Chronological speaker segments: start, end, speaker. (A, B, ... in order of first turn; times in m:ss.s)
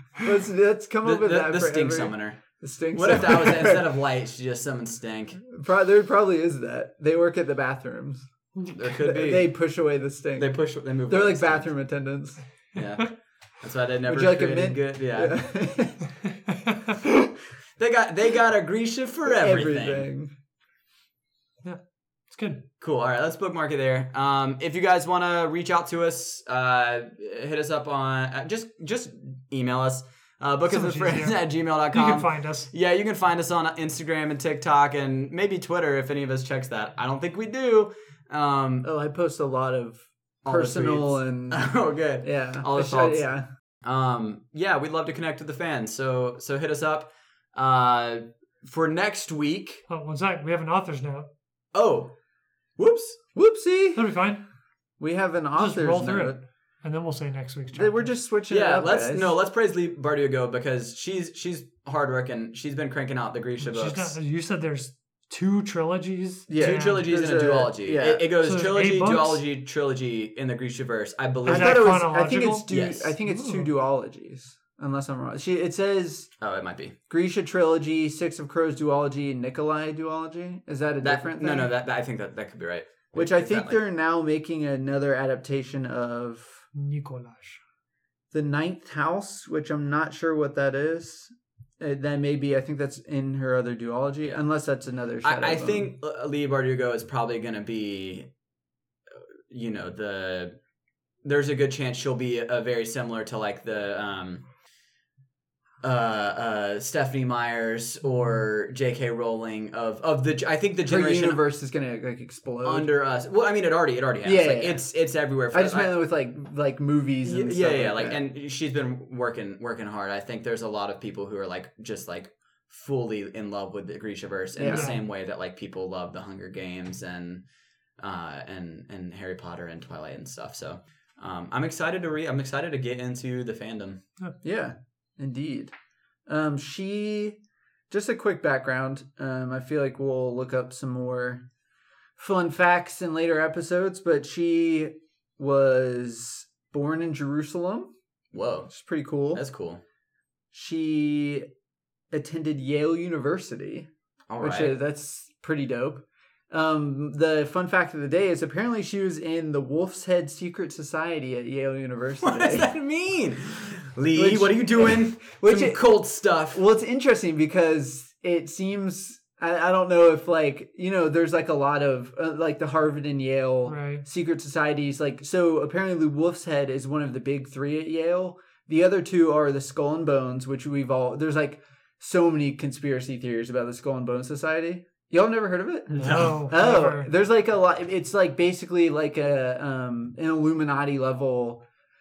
0:00.2-0:03.9 A
0:01.0-0:05.4 B
0:05.4-0:08.3 A
0:08.7-0:09.5 B
0:09.0-0:10.5 A
0:10.4-0:11.7 B
0:11.1-0:12.4 A
0:12.7-0:15.4 B
0:14.0-0:16.0 A
0:16.5-0:17.1 C
0:17.8-0:20.1 B
0:19.2-0:20.3 A
0:22.3-0:22.6 C
0:22.8-0:38.9 B
0:30.7-0:32.7 C
0:38.8-0:41.6 A
0:40.4-0:43.2 B
0:42.2-0:43.4 A
0:43.8-0:49.8 B
0:49.9-0:51.3 C
0:51.7-0:52.1 B
0:52.8-0:53.2 B
0:53.3-0:54.1 A
0:53.9-0:54.4 C
0:55.0-0:56.4 A
0:55.5-0:58.1 C
0:57.7-0:59.3 A
0:58.5-1:04.2 B
1:03.6-1:07.0 C
1:06.5-1:08.2 A
1:06.6-1:12.0 B
1:08.4-1:09.4 C
1:11.4-1:12.6 C
1:11.4-1:16.3 A
1:12.7-1:13.1 B
1:13.3-1:13.7 C
1:16.4-1:17.0 B
1:17.1-1:21.7 A
1:21.0-1:23.8 B
1:23.1-1:26.6 A
1:26.7-1:27.6 C
1:28.3-1:35.9 A
1:35.2-1:38.3 B
1:39.5-1:40.5 B
1:41.2-1:44.4 B
1:45.8-1:51.4 B
1:50.8-1:52.9 A
1:52.6-1:55.9 B
1:54.2-1:54.8 A
1:55.5-1:58.2 A
1:57.2-2:07.4 B
2:04.5-2:04.9 A
2:04.7-2:05.0 C
2:08.0-2:14.0 B
2:14.4-2:15.7 A
2:16.3-2:17.4 A
2:17.9-2:21.4 A
2:22.2-2:27.9 A
2:28.3-2:28.7 B
2:28.7-2:29.4 A
2:29.3-2:29.8 B
2:30.5-2:31.4 A
2:32.1-2:42.7 A
2:34.3-2:34.7 B
2:42.2-2:46.6 B
2:44.1-2:45.9 A
2:46.5-3:11.6 A
2:53.6-2:54.0 C
3:05.9-3:07.1 C
3:06.0-3:06.4 B